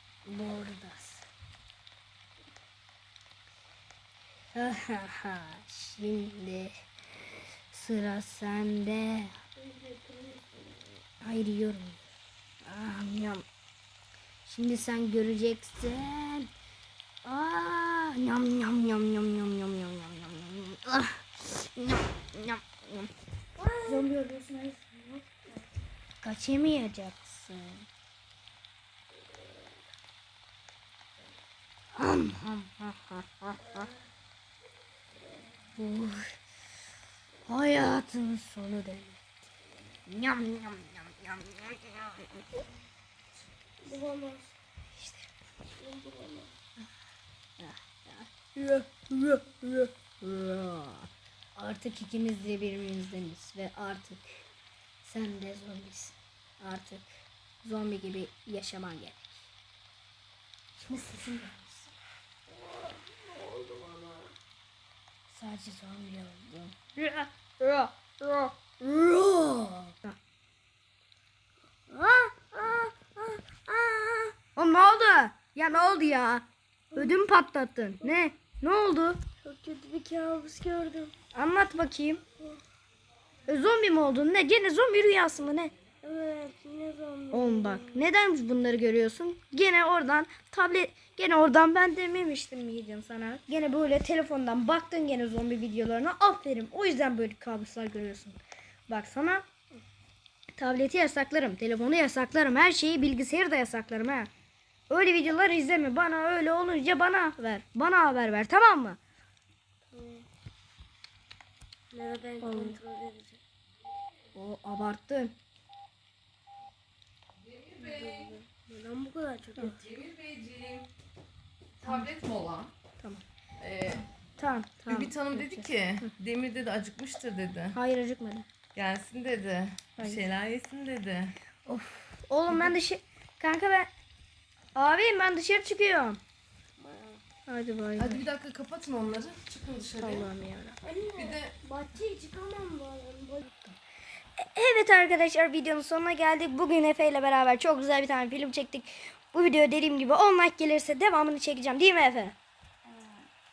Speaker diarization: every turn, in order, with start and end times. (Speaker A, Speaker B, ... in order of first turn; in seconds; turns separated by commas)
Speaker A: 0.2-1.3, Speaker A: 4.5-6.8, Speaker A: 7.7-9.3, Speaker B: 9.6-10.9, Speaker A: 11.2-12.0, Speaker A: 12.6-13.4, Speaker A: 14.5-16.5, Speaker A: 17.2-23.1, Speaker B: 23.6-24.1, Speaker A: 23.9-25.3, Speaker A: 26.2-27.9, Speaker A: 31.9-33.9, Speaker B: 33.6-33.9, Speaker A: 35.8-36.4, Speaker A: 37.5-39.2, Speaker A: 40.1-42.4, Speaker B: 43.8-44.6, Speaker A: 45.0-45.3, Speaker B: 45.8-46.5, Speaker A: 47.6-54.5, Speaker A: 55.0-57.1, Speaker A: 57.6-59.5, Speaker A: 60.8-61.9, Speaker B: 62.5-64.3, Speaker A: 65.3-70.2, Speaker B: 71.9-74.4, Speaker A: 74.6-79.2, Speaker B: 79.4-81.1, Speaker A: 81.3-82.2, Speaker A: 83.5-85.7, Speaker B: 86.0-88.1, Speaker A: 87.3-98.4, Speaker A: 98.9-99.5, Speaker A: 100.6-104.3, Speaker A: 104.9-109.0, Speaker B: 109.9-110.3, Speaker B: 111.9-113.4, Speaker A: 112.4-112.8, Speaker A: 114.3-115.3, Speaker C: 117.5-118.3, Speaker B: 117.8-119.9, Speaker C: 119.8-120.9, Speaker C: 121.8-122.7, Speaker C: 123.6-124.1, Speaker A: 124.4-126.1, Speaker C: 124.9-127.8, Speaker A: 127.7-128.5, Speaker C: 128.8-131.3, Speaker A: 130.0-130.3, Speaker A: 131.7-133.9, Speaker A: 134.8-136.2, Speaker B: 136.8-137.2, Speaker A: 137.5-138.3, Speaker C: 138.0-140.3, Speaker A: 140.0-140.8, Speaker B: 140.8-143.5, Speaker C: 141.2-141.6, Speaker A: 144.4-152.4, Speaker B: 152.8-153.3